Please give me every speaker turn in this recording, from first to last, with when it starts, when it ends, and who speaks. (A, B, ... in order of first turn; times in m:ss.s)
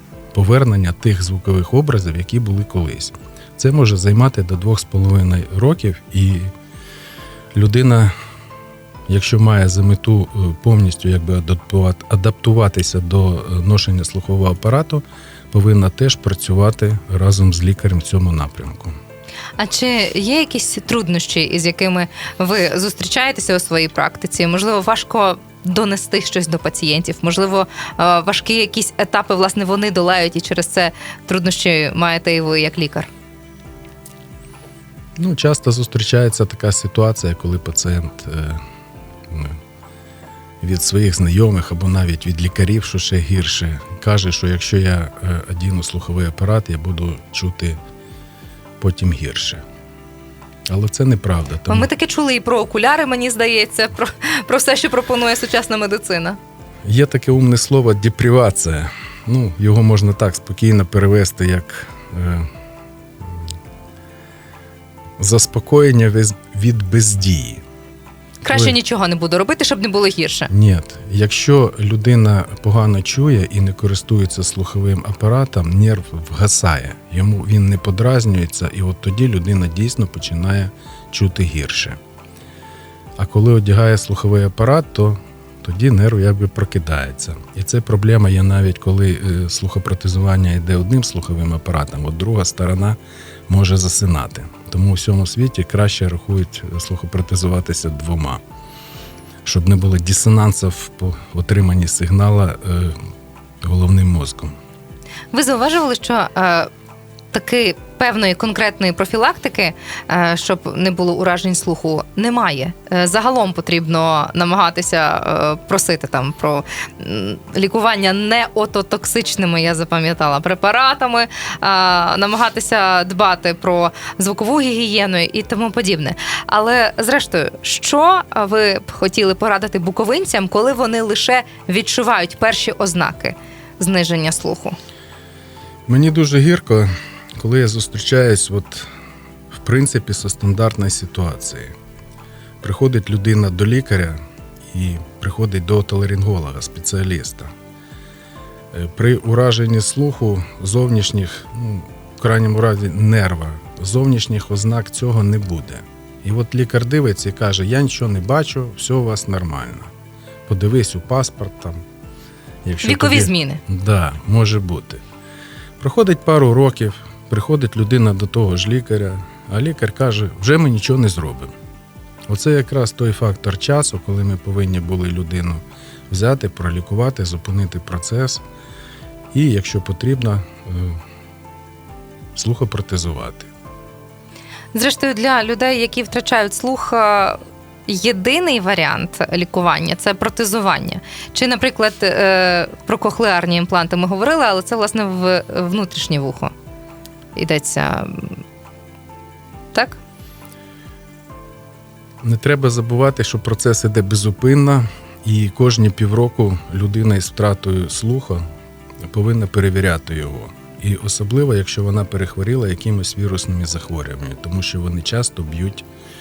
0:00.3-0:06.5 A
0:07.5-0:08.1 A
0:09.1-0:19.0 A
0:19.6-0:33.1 B
0:35.2-0:38.6 A
0:39.3-0:39.6 A
0:40.6-0:47.8 A
0:48.8-0:49.6 A
0:50.7-0:51.9 A
0:51.7-0:56.4 B
0:56.8-1:02.5 A
1:05.2-1:07.6 A
1:08.4-1:10.5 B
1:08.5-1:08.8 A
1:10.5-1:22.0 A
1:23.2-1:38.4 A
1:39.4-1:43.0 A
1:43.6-1:44.6 A
1:45.3-1:46.7 B
1:47.3-2:14.8 B
2:15.9-2:18.9 A
2:19.5-2:21.7 A
2:22.6-2:24.2 A
2:24.7-2:27.5 A
2:28.7-2:39.9 A
2:40.5-2:41.8 A
2:42.6-2:45.0 A
2:42.8-2:43.6 B
2:45.8-2:51.5 A
2:52.3-2:58.4 A
2:59.3-3:01.0 A
3:02.4-3:03.5 A
3:04.7-3:16.5 B
3:17.4-3:18.4 B
3:19.7-3:20.0 B
3:22.2-3:28.4 A
3:29.0-3:35.9 A